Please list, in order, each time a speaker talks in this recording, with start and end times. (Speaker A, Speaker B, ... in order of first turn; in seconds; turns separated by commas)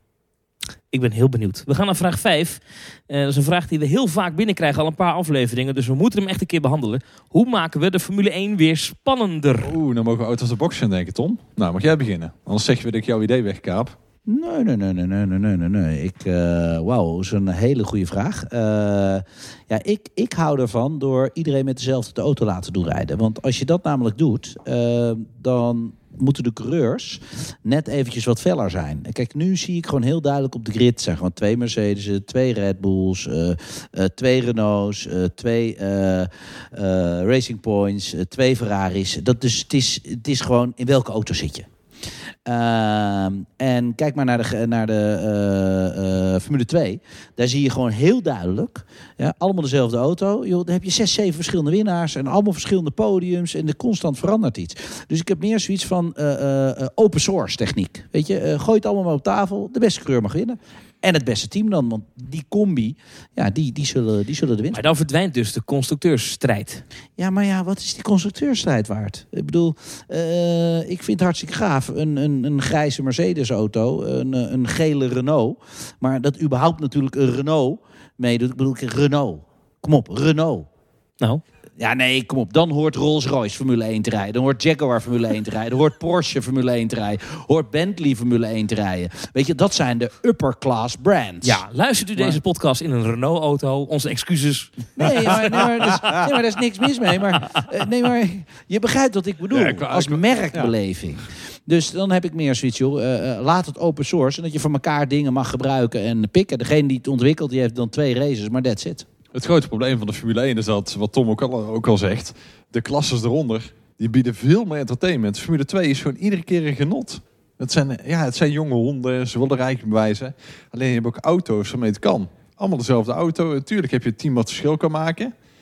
Speaker A: 0.9-9.8, Speaker B: 9.6-14.0, Speaker C: 14.3-41.7, Speaker C: 42.5-64.8, Speaker A: 64.7-66.8, Speaker C: 67.2-80.7, Speaker C: 81.8-91.6, Speaker A: 91.4-95.9, Speaker C: 95.0-109.1, Speaker B: 95.4-96.3, Speaker B: 99.5-100.7, Speaker B: 109.3-125.3